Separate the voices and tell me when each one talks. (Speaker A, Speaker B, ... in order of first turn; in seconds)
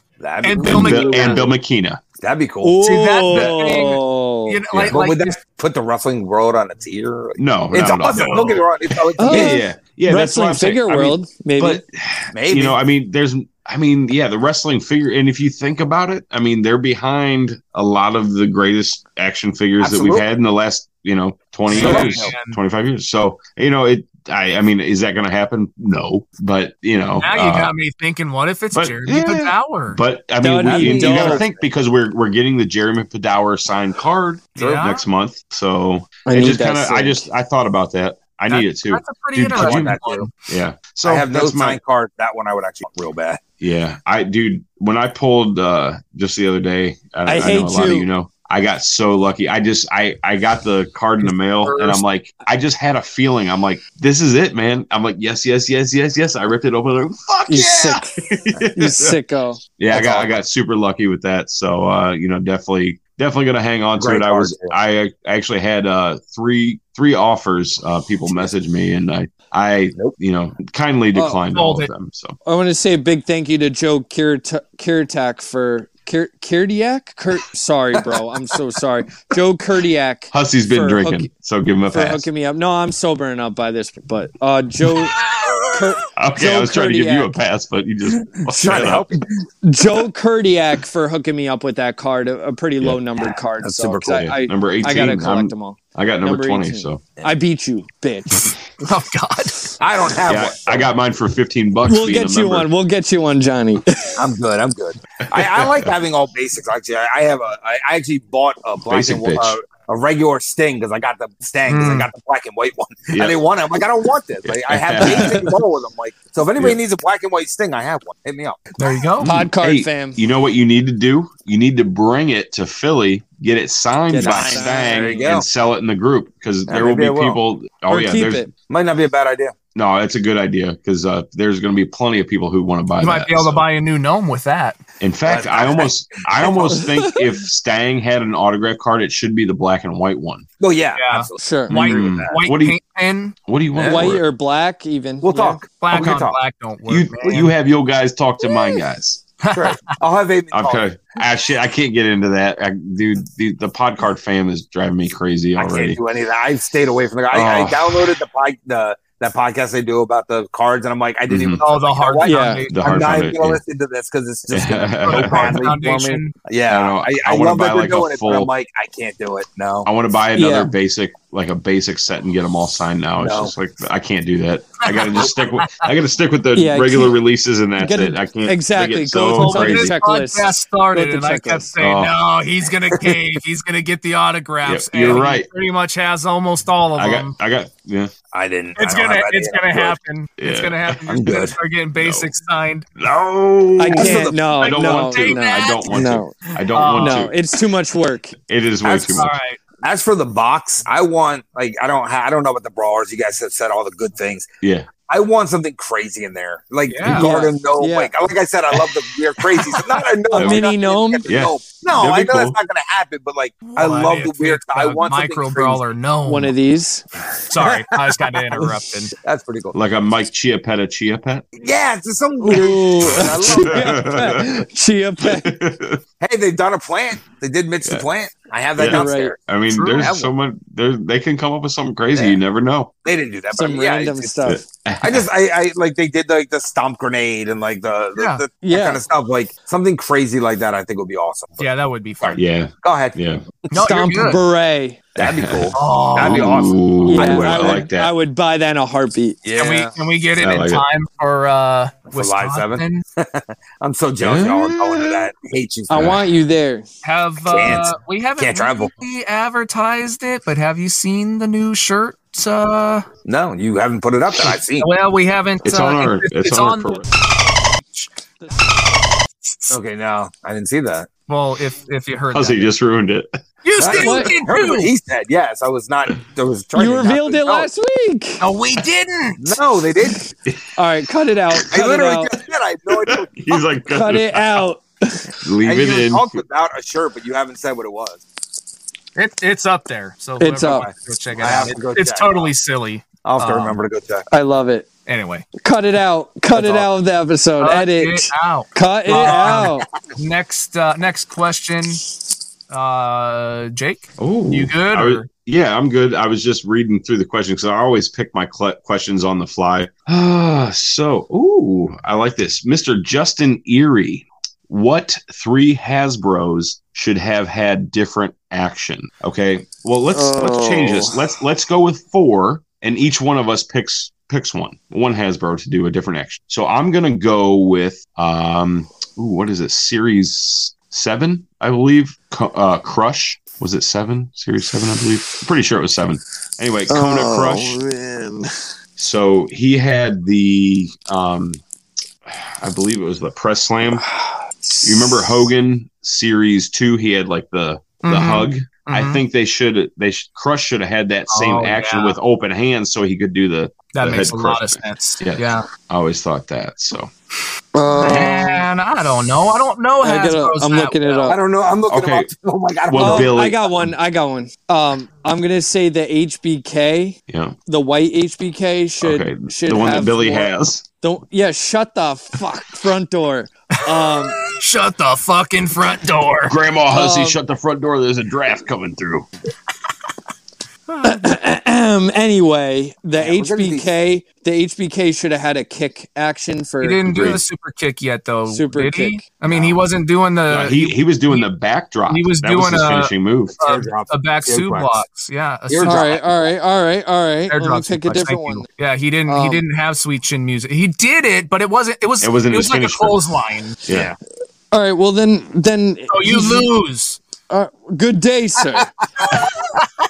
Speaker A: 0.2-1.6, 2.2-2.8, 4.9-9.7, 12.3-12.8, 19.8-20.3, 21.7-22.3, 30.6-31.6, 39.5-40.3, 41.0-43.4, 59.9-60.4, 64.0-64.8, 77.9-78.2, 88.5-89.3, 93.2-94.4, 99.8-100.9, 104.2-118.7, 124.2-125.5, 126.7-127.4, 128.7-129.6, 135.3-136.8, 140.6-142.3, 143.7-144.1, 145.2-146.4, 149.5-150.8, 155.6-169.9, 173.2-173.6, 188.3-190.0, 191.1-191.6, 193.9-194.5, 198.8-199.3, 199.8-204.5, 205.1-215.8, 217.6-218.7, 219.2-219.8, 221.6-224.1, 226.2-230.3, 232.1-232.4, 233.1-241.7, 242.2-243.2, 245.2-247.9, 249.4-249.9, 252.1-256.2, 257.5-258.9, 263.2-264.9, 269.7-271.1, 273.8-277.7, 279.4-280.2, 281.7-283.4, 285.6-288.2, 290.7-292.5, 293.2-294.3, 296.5-296.9, 299.1-299.8, 361.3-363.5, 383.2-383.9, 389.5-389.8, 393.6-395.1, 395.7-396.6, 403.9-404.2, 408.6-409.3
Speaker B: 0.4-1.4, 2.8-5.4, 21.7-22.6, 27.2-30.0, 34.6-35.0, 38.5-40.3, 51.3-52.0, 71.5-71.9, 98.8-99.8, 111.7-112.1, 118.8-119.3, 133.0-134.8, 141.0-143.3, 145.8-147.5, 149.4-149.8, 161.6-163.1, 165.0-166.3, 174.8-175.9, 179.3-187.3, 188.8-192.9, 194.6-196.1, 196.7-197.3, 199.2-199.6, 206.9-207.3, 213.7-216.6, 217.5-219.1, 229.7-230.1, 238.2-238.4, 241.6-242.4, 243.7-244.4, 245.7-246.5, 249.6-253.0, 257.0-263.1, 264.4-267.1, 267.8-268.1, 269.5-269.8, 271.3-272.7, 273.6-274.9, 278.4-279.6, 289.1-293.8, 295.1-295.5, 297.6-302.0, 302.7-305.3, 348.0-349.2, 351.3-352.2, 353.9-355.7, 358.0-361.4, 373.8-376.6, 380.9-381.3, 386.8-391.5, 392.1-396.1, 397.5-403.8, 406.1-407.2
Speaker C: 0.6-2.0, 4.7-5.0, 7.4-8.6, 9.2-27.7, 28.7-41.8, 43.6-59.2, 59.8-72.4, 80.3-82.3, 86.2-89.1, 94.2-97.0, 100.3-102.7, 105.3-105.9, 108.9-109.6, 113.1-113.4, 114.5-115.5, 119.2-128.5, 129.8-133.6, 135.0-140.5, 141.7-142.8, 143.5-144.2, 146.9-149.2, 150.5-156.0, 157.3-158.2, 161.3-161.6, 162.7-163.6, 164.5-165.6, 166.7-168.5, 169.8-180.0, 181.8-182.2, 184.7-185.5, 187.0-188.1, 190.4-191.2, 192.0-192.3, 193.0-197.4, 198.5-199.3, 204.6-204.9, 210.3-210.7, 211.3-212.6, 219.7-221.5, 223.0-224.6, 225.2-226.0, 228.8-232.9, 234.5-235.3, 242.4-243.4, 245.2-248.1, 250.4-250.8, 254.2-255.3, 256.0-256.2, 265.6-267.1, 272.3-273.4, 282.9-284.6, 285.4-286.4, 304.2-337.8, 339.0-341.6, 342.3-344.1, 344.8-357.1, 361.9-362.3, 362.9-363.9, 367.3-367.6, 369.0-370.8, 376.5-379.3, 390.5-393.6, 402.2-403.2, 403.9-404.1
Speaker D: 2.6-4.6, 9.2-11.8, 30.4-31.4, 36.3-37.3, 47.3-48.1, 57.5-58.1, 58.8-59.6, 72.5-81.3, 81.9-87.3, 89.6-98.6, 101.9-104.2, 119.2-120.2, 124.1-125.2, 127.9-128.5, 136.8-137.1, 141.4-141.7, 143.8-145.6, 162.2-162.6, 170.4-170.7, 176.6-177.2, 177.8-181.7, 193.8-198.3, 207.1-208.1, 210.3-211.2, 216.3-217.1, 222.4-225.5, 228.9-229.4, 233.5-234.6, 238.6-239.0, 243.8-245.0, 247.1-249.4, 255.9-256.9, 273.9-274.3, 276.8-278.4, 280.8-282.3, 283.9-285.3, 290.4-290.9, 294.3-294.9, 295.6-299.9, 320.1-321.3, 336.9-338.5, 343.9-345.2, 357.7-358.6, 360.0-361.4, 363.0-370.5, 371.0-374.4, 376.9-377.4, 381.0-387.4, 388.5-389.2, 395.8-398.7, 399.3-399.6, 404.7-406.7, 407.5-408.9